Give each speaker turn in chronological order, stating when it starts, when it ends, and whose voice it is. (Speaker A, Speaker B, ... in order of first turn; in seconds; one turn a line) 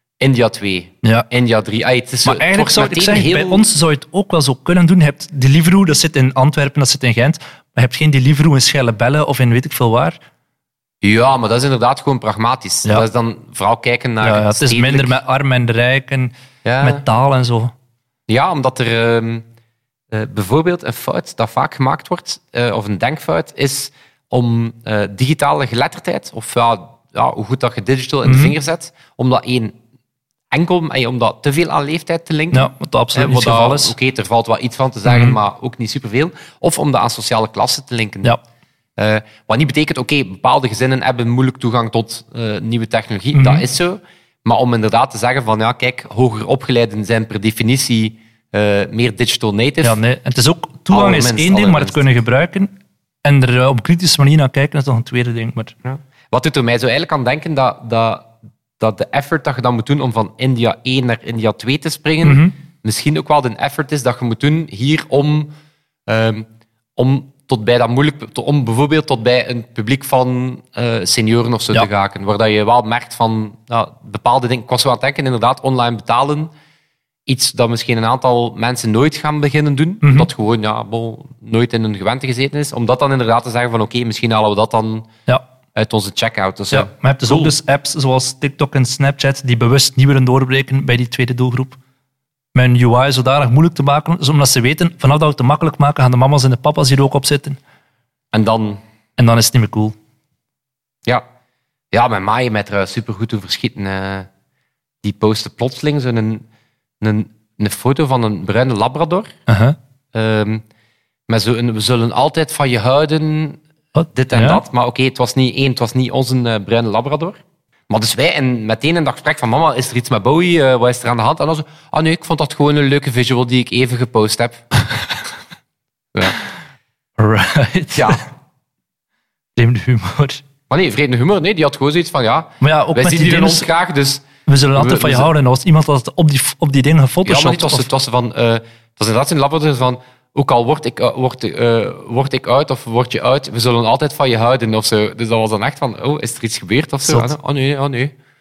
Speaker A: 0.2-3.6
Speaker B: 2.2-10.2
Speaker A: 11.0-15.2
Speaker B: 14.2-17.7
Speaker A: 16.6-17.0
Speaker A: 18.3-19.4
Speaker A: 20.1-29.8
Speaker B: 28.2-28.6
Speaker A: 30.5-38.4
Speaker B: 32.5-34.0
Speaker B: 35.1-35.4
Speaker A: 39.0-50.0
Speaker B: 43.3-43.7
Speaker B: 49.8-52.7
Speaker A: 50.9-52.0
Speaker B: 53.2-55.7
Speaker A: 55.9-65.5
Speaker B: 62.2-62.5
Speaker A: 66.1-76.5
Speaker A: 77.3-85.1
Speaker B: 80.0-80.3
Speaker A: 85.8-87.5
Speaker B: 86.7-91.8
Speaker B: 92.5-97.6
Speaker A: 98.3-98.8
Speaker B: 99.2-100.0
Speaker A: 101.9-104.3
Speaker A: 105.0-106.5
Speaker A: 107.0-109.3
Speaker B: 109.5-109.8
Speaker A: 110.1-110.6
Speaker A: 111.3-113.6
Speaker B: 114.0-114.6
Speaker A: 114.1-124.6
Speaker B: 127.2-128.2
Speaker A: 127.9-128.2
Speaker B: 129.6-130.4
Speaker A: 130.7-135.3
Speaker B: 132.6-133.7
Speaker B: 134.5-137.9
Speaker A: 137.2-148.1
Speaker B: 147.1-147.3